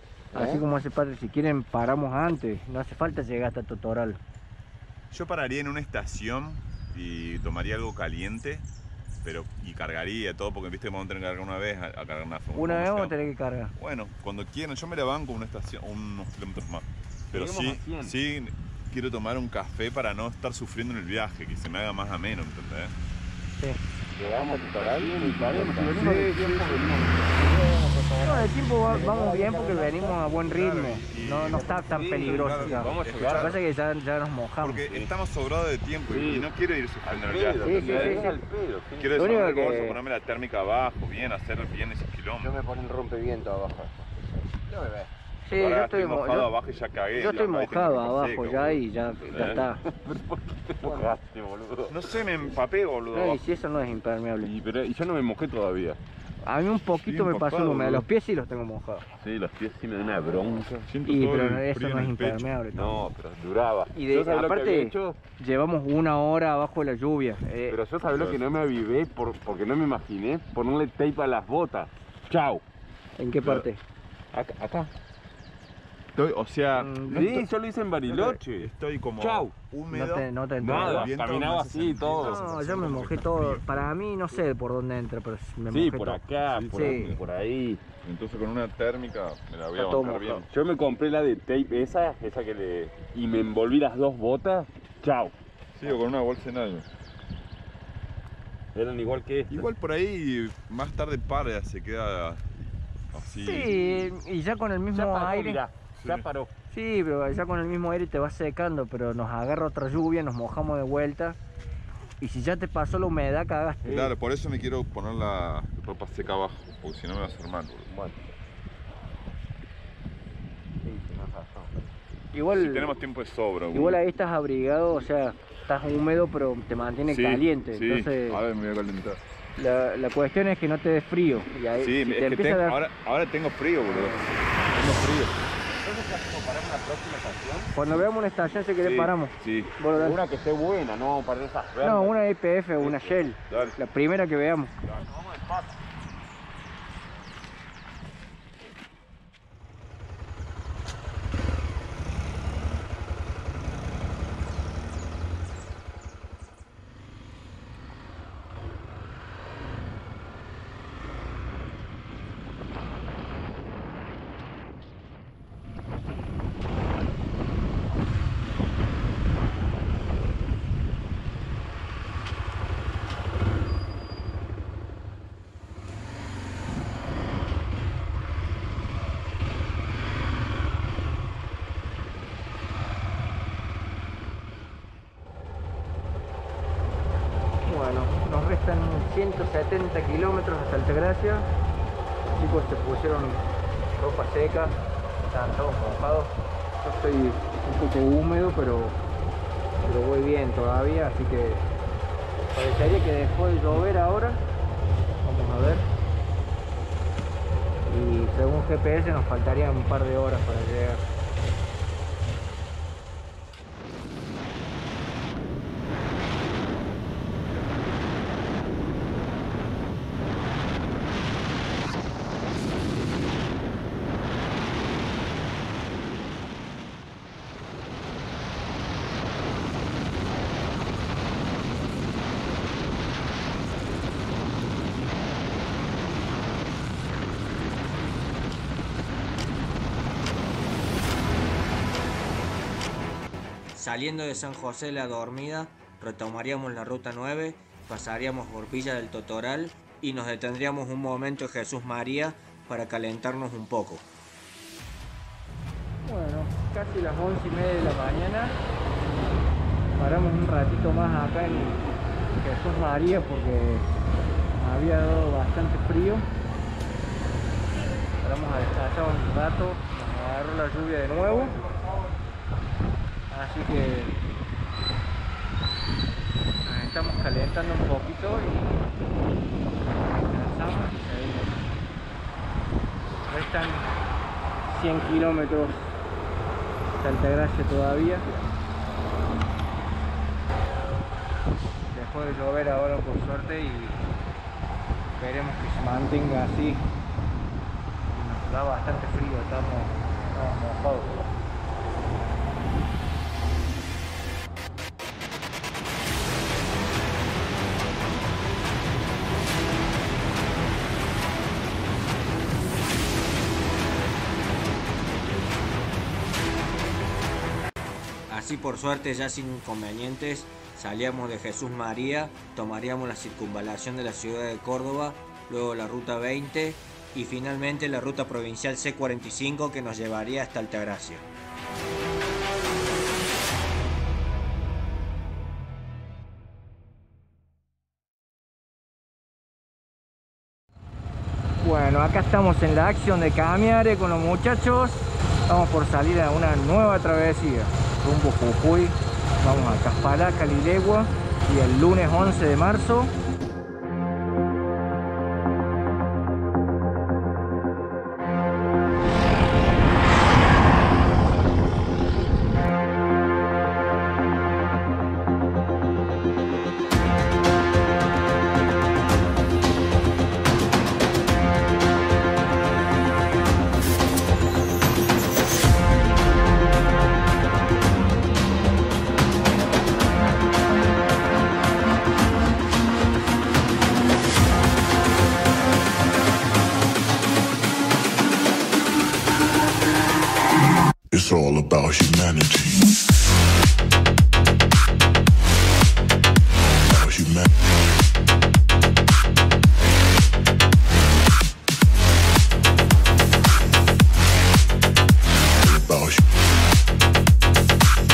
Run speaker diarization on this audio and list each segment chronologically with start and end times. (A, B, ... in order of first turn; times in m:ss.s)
0:00.3-0:00.6 A
0:00.3-0:04.2 B
0:05.1-0:08.6 C
0:09.2-0:13.2 C
0:12.5-0:13.7 B
0:13.8-0:22.9 C
0:17.3-0:18.2 D
0:24.2-0:27.3 D
0:24.2-0:30.2 A
0:28.2-0:34.9 B
0:30.5-0:33.6 C
0:31.5-0:33.6 D
0:34.6-0:38.3 C
0:36.1-0:36.5 D
0:37.0-0:39.7 D
0:37.6-0:38.3 B
0:39.0-0:42.5 C
0:39.1-0:40.0 B
0:42.4-0:44.1 A
0:44.6-0:45.1 A
0:45.4-0:46.5 B
0:45.5-0:48.8 C
0:47.1-0:49.8 B
0:49.2-0:51.9 D
0:51.9-0:53.4 C
0:53.1-0:54.5 B
0:54.4-0:56.0 D
0:56.4-0:59.0 B
0:56.9-0:58.0 C
0:59.2-1:00.9 D
1:00.9-1:02.5 C
1:01.0-1:03.0 B
1:02.7-1:05.2 D
1:03.9-1:07.8 B
1:07.7-1:12.6 D
1:08.1-1:08.4 C
1:13.2-1:13.8 B
1:13.4-1:13.6 C
1:14.3-1:14.9 D
1:16.1-1:17.5 C
1:16.7-1:17.3 B
1:17.1-1:19.5 D
1:18.1-1:23.7 C
1:19.9-1:21.1 B
1:20.6-1:22.9 D
1:22.2-1:27.1 B
1:25.7-1:27.8 D
1:26.5-1:27.2 C
1:28.0-1:30.5 C
1:29.8-1:30.1 B
1:29.8-1:35.3 D
1:35.7-1:36.8 C
1:38.7-1:39.7 D
1:39.5-1:43.7 C
1:43.2-1:45.6 B
1:43.6-1:44.1 D
1:44.9-1:46.5 D
1:46.0-1:46.3 C
1:46.7-1:51.4 B
1:52.2-1:54.0 B
1:53.8-1:57.9 C
2:00.9-2:01.7 A
2:02.3-2:02.9 B
2:02.5-2:04.0 C
2:03.7-2:08.4 B
2:07.0-2:09.2 C
2:09.6-2:12.8 B
2:11.7-2:15.4 C
2:15.7-2:17.7 D
2:17.7-2:20.2 B
2:18.8-2:19.7 C
2:19.9-2:22.2 D
2:21.8-2:24.7 B
2:22.8-2:23.7 D
2:23.5-2:23.7 C
2:24.8-2:25.7 D
3:07.6-3:11.5 B
3:12.3-3:13.4 B
3:13.9-3:19.0 B
3:19.8-3:21.6 B
3:22.5-3:24.4 B
3:25.2-3:25.8 B
3:27.8-3:31.0 B
4:03.7-4:14.1 E
4:16.0-4:18.6 B
4:20.0-4:21.9 B
4:22.4-4:23.8 B
4:24.5-4:26.3 B
4:28.2-4:31.6 B
4:33.3-4:34.2 B
4:36.6-4:38.8 B
4:40.1-4:41.6 B
4:43.3-4:44.0 B
4:44.6-4:45.8 B
4:47.0-4:48.3 B
4:51.9-4:54.0 B
4:55.2-4:56.8 B
4:58.1-5:01.2 B
5:18.3-5:31.2 E
5:41.6-5:53.1 B